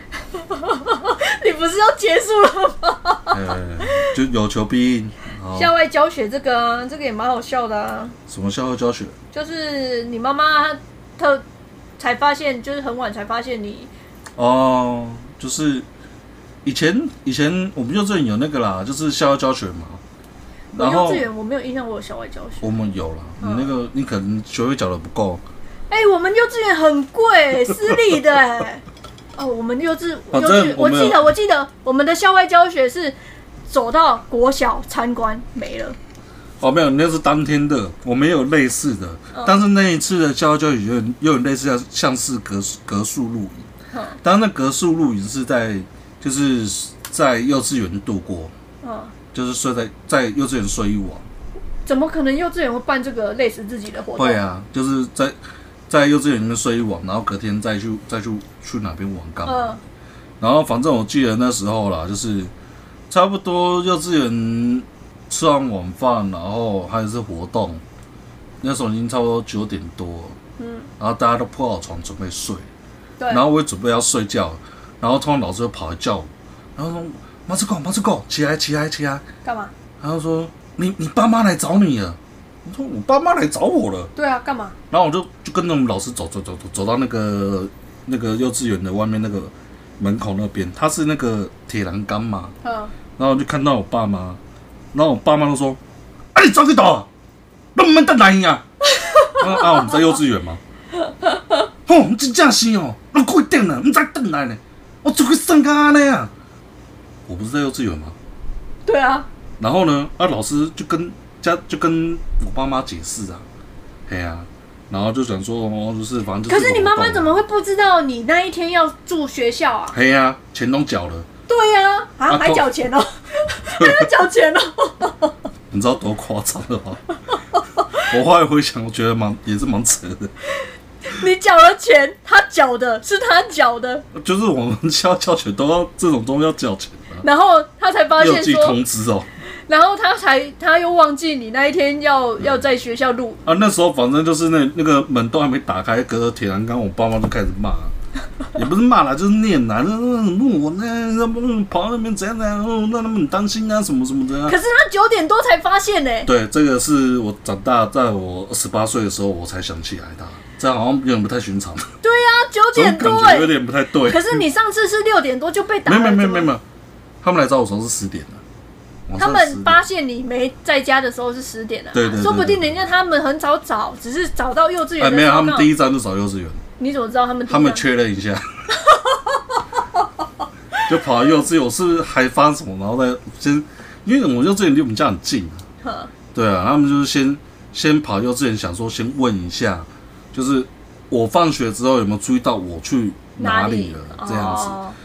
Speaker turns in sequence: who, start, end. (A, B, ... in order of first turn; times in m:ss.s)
0:00.4-0:04.0 A
0:03.3-0:05.7 B
0:05.5-0:08.2 A
0:08.3-0:09.1 B
0:09.3-0:11.4 A
0:12.0-0:13.9 A
0:14.4-0:15.8 B
0:16.6-0:20.0 B
0:20.7-0:21.3 B
0:20.7-0:22.7 A
0:22.6-0:25.4 B
0:23.4-0:23.7 A
0:25.9-0:28.8 A
0:29.4-0:33.2 A
0:30.3-0:31.2 B
0:33.7-0:36.0 A
0:36.6-0:43.7 B
0:43.9-0:44.2 A
0:44.2-0:48.5 B
0:48.8-0:49.1 A
0:49.3-0:51.3 B
0:51.8-0:54.4 A
0:54.1-0:55.4 B
0:55.9-0:59.7 B
0:59.4-0:59.8 A
1:00.4-1:02.5 B
1:03.1-1:07.8 B
1:08.6-1:10.4 B
1:10.6-1:10.9 A
1:11.0-1:12.6 B
1:13.2-1:13.4 A
1:13.3-1:19.2 B
1:19.4-1:19.7 A
1:20.0-1:24.1 B
1:24.2-1:24.8 A
1:24.9-1:32.5 B
1:32.6-1:32.9 A
1:33.2-1:34.4 B
1:34.9-1:35.8 B
1:36.3-1:37.1 B
1:37.7-1:38.6 B
1:38.9-1:39.8 A
1:39.3-1:40.6 B
1:41.0-1:41.6 A
1:41.8-1:46.3 B
1:47.3-1:48.2 B
1:48.8-1:49.3 A
1:49.6-1:53.4 B
1:54.1-1:57.4 B
1:56.5-2:00.0 A
1:59.9-2:01.3 B
2:01.5-2:05.3 A
2:02.3-2:02.7 B
2:03.8-2:04.1 B
2:05.7-2:07.0 B
2:08.0-2:10.3 B
2:11.0-2:14.0 A
2:14.1-2:17.2 B
2:17.2-2:18.8 A
2:18.2-2:19.3 B
2:19.7-2:23.4 A
2:23.4-2:27.9 B
2:28.5-2:34.6 B
2:34.4-2:36.3 A
2:36.2-2:41.9 B
2:42.0-2:46.5 A
2:42.7-2:44.4 B
2:45.8-2:46.6 B
2:47.2-2:48.4 B
2:49.1-2:49.8 B
2:49.2-2:55.7 A
2:51.9-2:52.9 B
2:55.0-2:56.6 B
2:56.8-2:57.8 A
2:57.5-2:58.5 B
2:58.9-2:59.2 A
3:00.8-3:05.6 B
3:05.8-3:06.1 A
3:06.3-3:14.8 B
3:13.4-3:15.0 A